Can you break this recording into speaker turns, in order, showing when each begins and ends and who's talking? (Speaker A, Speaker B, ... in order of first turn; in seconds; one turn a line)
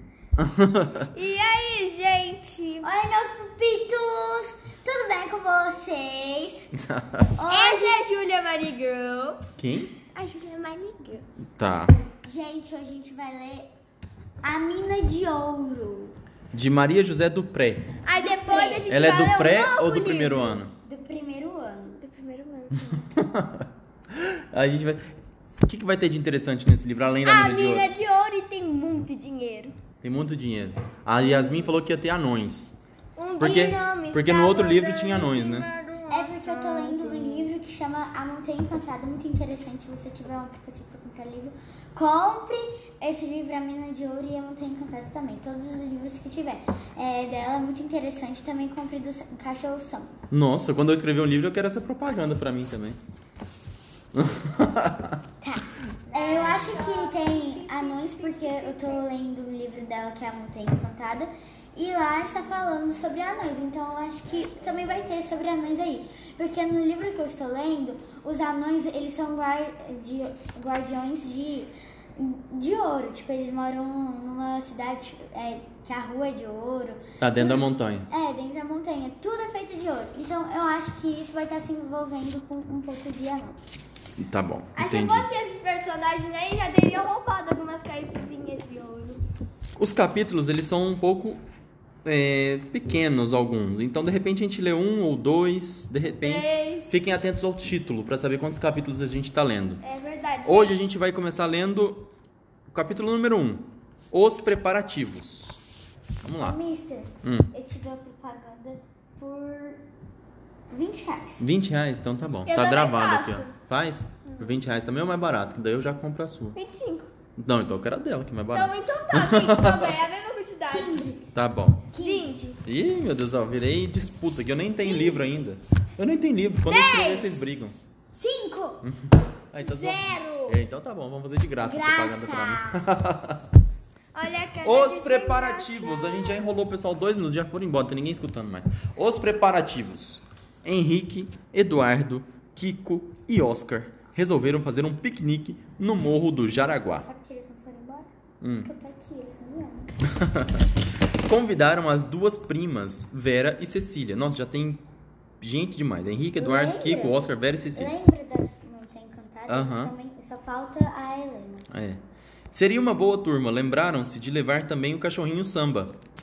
Speaker A: 0.4-1.1
Speaker B: 1.1-2.9
Speaker C: 2.8-6.7
Speaker A: 6.8-7.3
Speaker C: 7.3-8.0
Speaker B: 7.5-9.4
Speaker A: 9.6-9.9
Speaker B: 10.0-11.2
Speaker A: 11.6-11.9
Speaker C: 12.2-13.7
Speaker C: 14.4-16.1
Speaker A: 16.5-17.9
Speaker B: 18.0-20.6
Speaker C: 18.1-18.9
Speaker A: 18.9-20.7
Speaker C: 20.8-22.0
Speaker B: 22.0-23.1
Speaker A: 23.1-27.9
Speaker B: 27.2-29.8
Speaker A: 30.0-32.8
Speaker B: 33.2-37.5
Speaker A: 33.4-35.7
Speaker C: 36.1-50.1
Speaker A: 50.3-53.0
Speaker A: 54.1-55.2
Speaker C: 55.4-83.6
Speaker B: 56.1-59.1
Speaker A: 77.2-78.1
Speaker A: 84.2-85.3
Speaker B: 84.7-89.2
Speaker A: 89.8-91.4
Speaker A: 92.0-99.8
Speaker B: 96.0-97.0
Speaker B: 99.8-100.9
Speaker A: 100.4-102.1
Speaker A: 102.7-105.6
Speaker A: 106.2-106.6
Speaker C: 106.4-109.8
Speaker A: 107.2-107.5
Speaker C: 110.7-111.5
Speaker A: 111.4-116.5
Speaker B: 112.5-113.5
Speaker B: 114.3-114.6
Speaker B: 116.5-117.1
Speaker A: 117.4-120.0
Speaker B: 118.5-121.1
Speaker C: 120.7-121.2
Speaker A: 121.3-121.9
Speaker C: 121.9-122.3
Speaker B: 122.0-122.6
Speaker A: 122.6-127.8
Speaker C: 124.8-125.3
Speaker B: 126.7-127.4
Speaker C: 128.1-128.8
Speaker A: 128.8-133.5
Speaker B: 129.6-130.6
Speaker C: 131.6-132.9
Speaker B: 134.1-136.4
Speaker A: 134.6-147.1
Speaker C: 146.8-148.1
Speaker A: 148.4-148.7
Speaker C: 148.6-149.9
Speaker A: 150.1-150.7
Speaker A: 151.2-154.8
Speaker A: 155.4-157.9
Speaker C: 156.4-157.2
Speaker C: 157.7-161.7
Speaker A: 159.5-159.9
Speaker A: 161.7-162.0
Speaker A: 162.5-165.9